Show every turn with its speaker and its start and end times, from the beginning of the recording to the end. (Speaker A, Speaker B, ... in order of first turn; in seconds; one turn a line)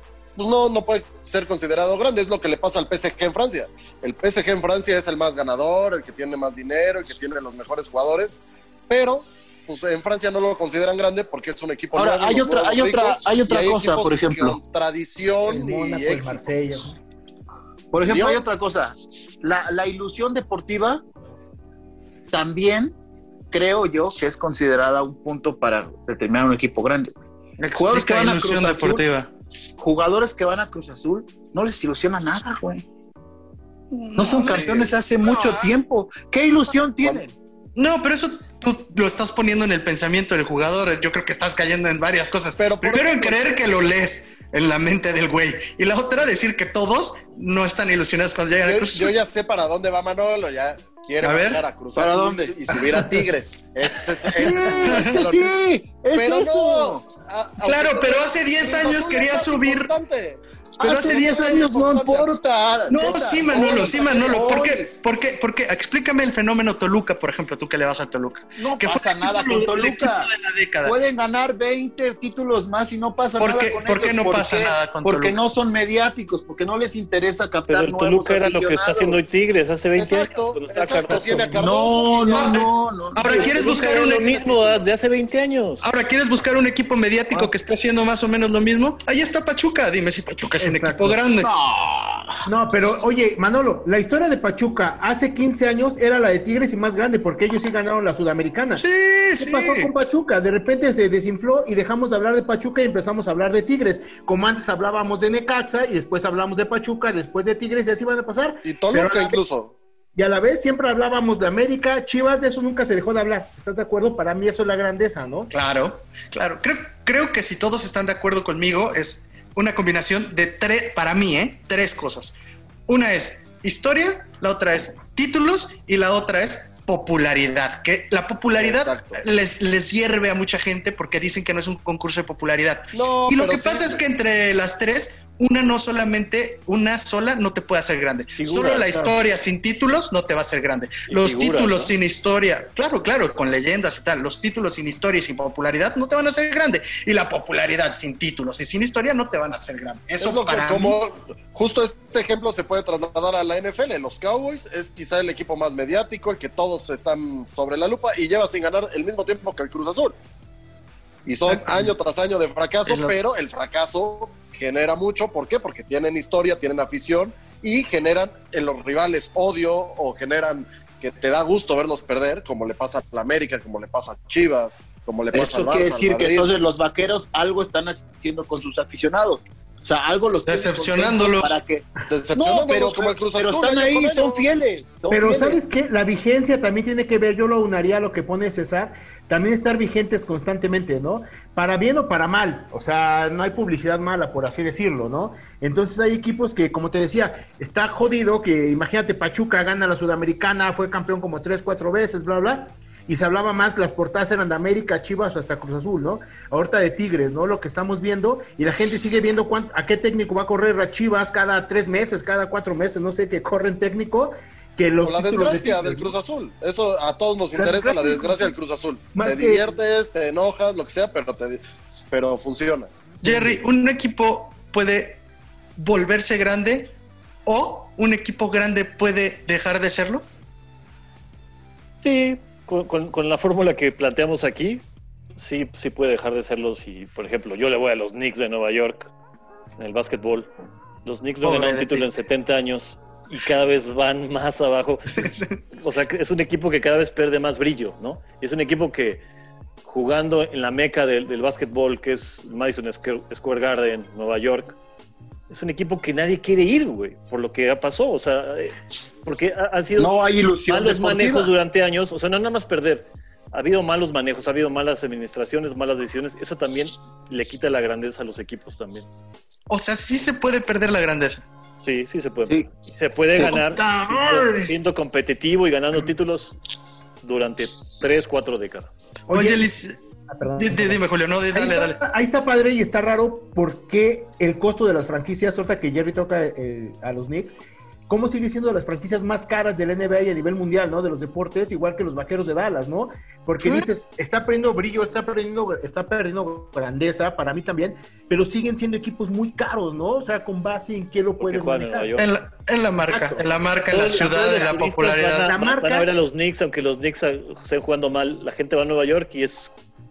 Speaker A: 0.3-8.4
Speaker A: 8.9-16.5
Speaker B: 11.9-14.6
Speaker C: 15.4-16.9
Speaker B: 17.9-21.0
Speaker A: 18.0-18.4
Speaker B: 22.3-22.9
Speaker B: 23.5-27.2
Speaker D: 27.6-29.3
Speaker B: 27.7-29.0
Speaker B: 29.8-32.8
Speaker D: 33.9-35.7
Speaker B: 34.2-37.3
Speaker D: 37.8-49.1
Speaker A: 42.6-43.4
Speaker A: 48.6-55.5
Speaker D: 51.2-51.6
Speaker B: 52.0-52.5
Speaker B: 54.3-57.0
Speaker D: 54.4-55.1
Speaker A: 56.1-62.3
Speaker D: 57.6-59.9
Speaker B: 60.8-64.9
Speaker D: 60.8-61.7
Speaker D: 62.9-71.0
Speaker A: 63.5-64.6
Speaker B: 68.6-70.3
Speaker B: 70.8-79.2
Speaker D: 73.4-75.4
Speaker E: 77.7-81.8
Speaker A: 79.9-82.7
Speaker B: 81.5-84.1
Speaker D: 82.2-84.4
Speaker E: 83.3-85.8
Speaker D: 85.8-91.5
Speaker C: 90.6-91.2
Speaker B: 91.4-92.4
Speaker C: 92.5-98.8
Speaker D: 98.8-99.9
Speaker C: 99.4-109.4
Speaker A: 108.6-109.7
Speaker C: 110.2-115.5
Speaker D: 115.5-122.3
Speaker D: 122.9-151.0
Speaker A: 128.6-129.2
Speaker A: 132.9-134.0
Speaker E: 138.4-139.1
Speaker E: 141.1-141.9
Speaker A: 150.2-160.2
Speaker A: 161.2-176.5
Speaker D: 161.5-161.9
Speaker D: 162.8-163.1
Speaker B: 175.3-185.6
Speaker D: 180.4-181.5
Speaker A: 182.1-184.5
Speaker C: 185.1-216.1
Speaker A: 215.0-222.9
Speaker C: 217.5-218.5
Speaker C: 219.1-219.7
Speaker D: 223.2-225.2
Speaker C: 223.2-223.6
Speaker D: 225.8-226.9
Speaker D: 227.4-230.2
Speaker E: 232.0-234.8
Speaker E: 235.3-239.1
Speaker E: 239.8-240.5
Speaker E: 241.0-249.2
Speaker D: 241.4-242.1
Speaker D: 245.1-245.6
Speaker E: 249.8-254.8
Speaker E: 255.5-260.1
Speaker B: 260.0-261.5
Speaker E: 260.7-269.1
Speaker D: 269.7-271.4
Speaker E: 271.8-276.6
Speaker C: 273.4-274.7
Speaker E: 277.2-278.9
Speaker C: 279.3-279.7
Speaker D: 279.3-280.0
Speaker C: 280.3-287.6
Speaker D: 280.6-282.0
Speaker C: 288.1-302.2
Speaker E: 301.4-302.3
Speaker D: 302.2-305.5
Speaker C: 303.1-306.1
Speaker E: 303.9-309.7